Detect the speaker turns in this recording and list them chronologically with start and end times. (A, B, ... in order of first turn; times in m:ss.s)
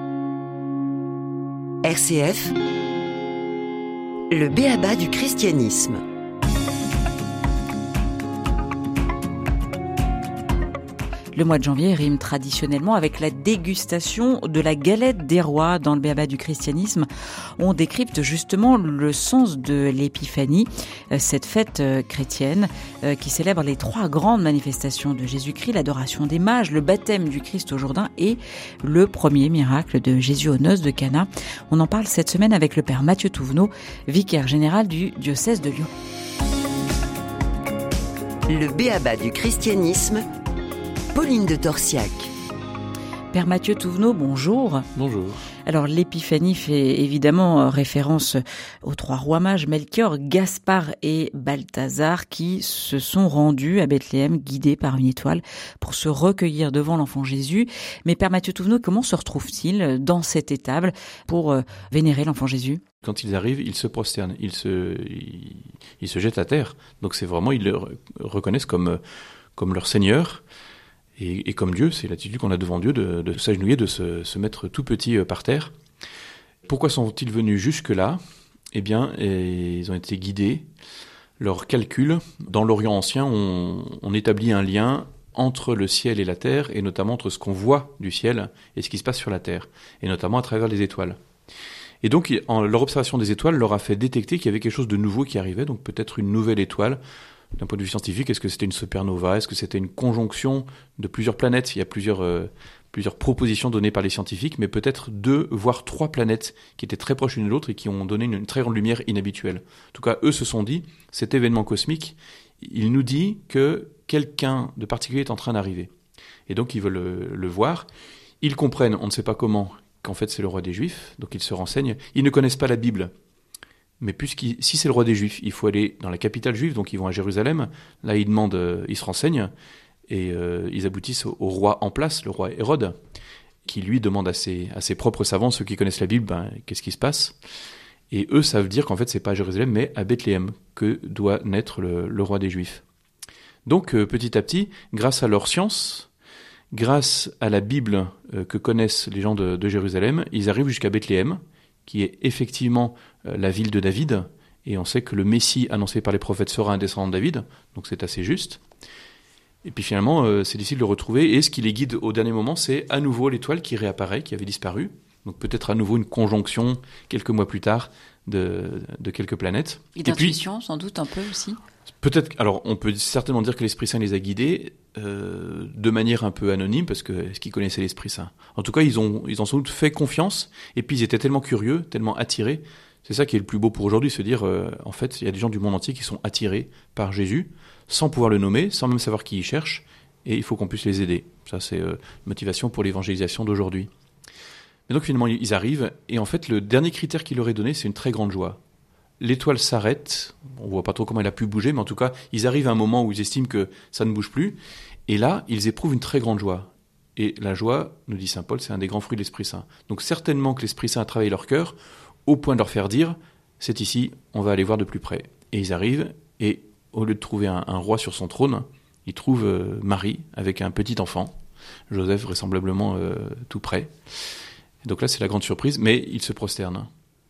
0:01.8-0:02.6 A
0:04.3-0:06.0 A
0:11.3-0:35.9 B
0:38.5-0:40.2 A
0:41.1-0:42.3 A
0:43.3-0:44.9 B
0:45.0-0:45.4 C
0:45.7-1:02.8 B
1:03.0-1:09.0 C
1:09.6-1:10.4 C
1:11.2-1:15.7 C
1:16.7-1:18.2 C
1:18.7-1:20.7 C
1:21.4-1:31.2 C
1:32.0-1:37.0 C
1:37.6-1:55.9 C
1:56.5-1:57.9 C
1:58.4-2:03.1 C
2:04.0-2:09.5 C
2:10.1-2:13.0 C
2:13.7-2:17.4 C
2:18.1-2:22.8 C
2:23.7-2:26.1 C
2:26.7-2:38.6 C
2:39.6-2:50.4 C
2:50.0-2:51.6 B
2:52.0-3:13.9 C
3:14.9-3:18.6 C
3:19.2-3:24.6 C
3:25.1-3:41.3 C
3:41.9-3:43.9 C
3:44.8-3:46.9 C